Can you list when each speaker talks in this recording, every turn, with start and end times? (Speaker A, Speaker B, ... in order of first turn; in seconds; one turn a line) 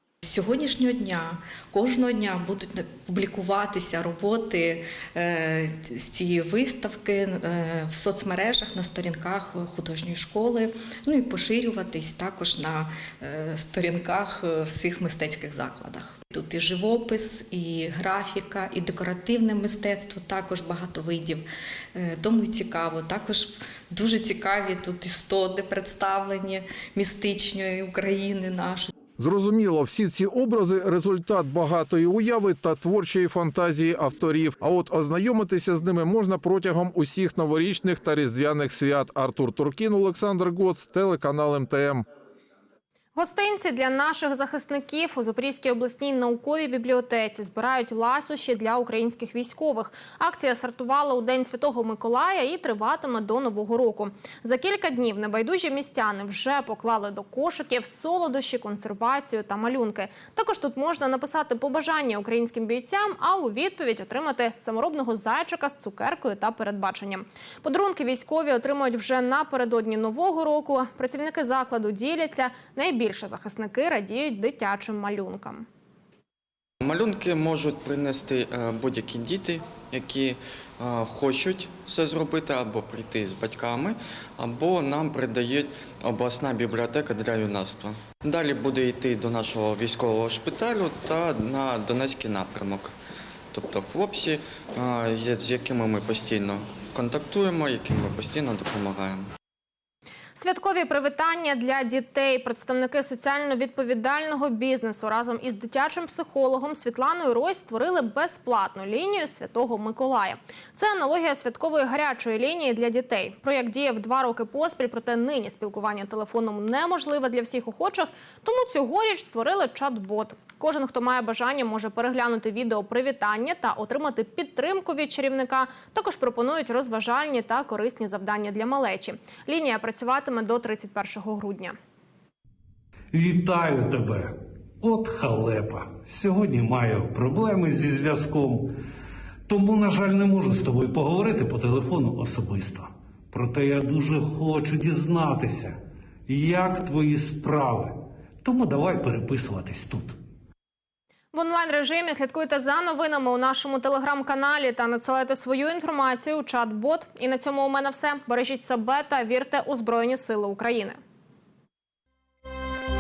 Speaker A: 0.2-28.9
Speaker B: 29.2-42.1
Speaker C: 43.2-75.7
Speaker D: 76.8-92.9
Speaker D: 93.5-99.3
Speaker C: 100.4-131.8
Speaker E: 133.1-138.8
Speaker E: 139.5-150.2
Speaker C: 151.3-161.0